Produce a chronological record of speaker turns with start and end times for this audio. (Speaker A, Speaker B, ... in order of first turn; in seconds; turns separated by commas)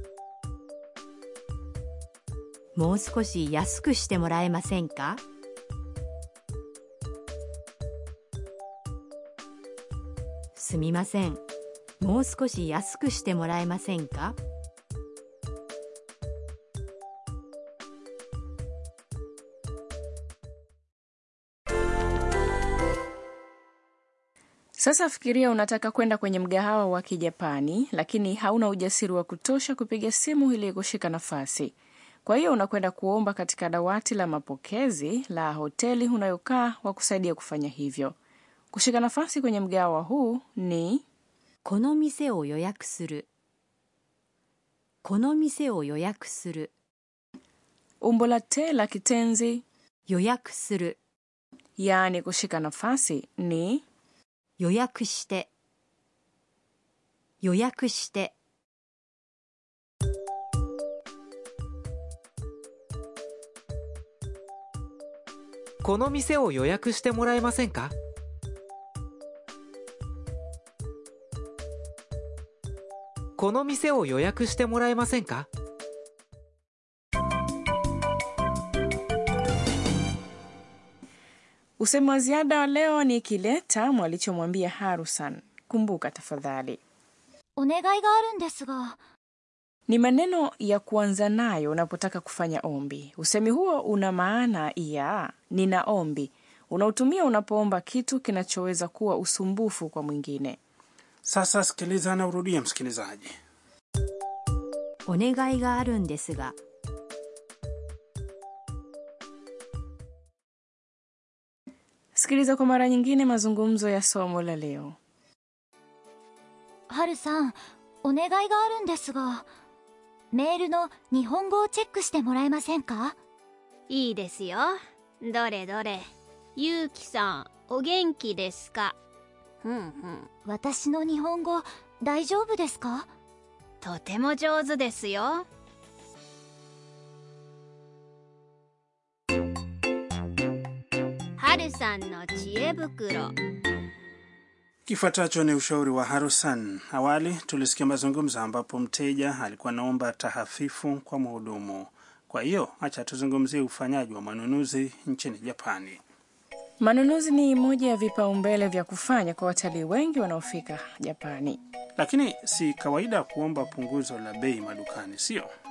Speaker A: 2.8-5.2, Speaker A: 10.6-11.4, Speaker A: 12.0-14.4, Speaker B: 24.8-31.7, Speaker B: 32.2-38.1, Speaker B: 38.7-41.0, Speaker A: 41.6-43.3, Speaker A: 45.0-46.7, Speaker B: 48.0-49.6, Speaker A: 50.1-51.0, Speaker B: 51.8-53.8, Speaker A: 54.6-55.5, Speaker A: 57.4-58.3, Speaker C: 65.8-67.9, Speaker C: 73.4-75.5, Speaker B: 81.8-86.8, Speaker D: 87.6-89.0, Speaker B: 89.9-100.6, Speaker E: 101.2-103.3, Speaker A: 105.1-106.6, Speaker B: 112.1-115.0, Speaker D: 116.9-119.5, Speaker D: 120.3-123.2, Speaker F: 123.9-126.0, Speaker F: 126.6-128.9, Speaker F: 129.6-130.3, Speaker D: 130.4-133.1, Speaker F: 133.8-135.4, Speaker F: 141.4-143.3, Speaker E: 144.9-156.0, Speaker B: 156.8-161.6, Speaker E: 162.0-165.5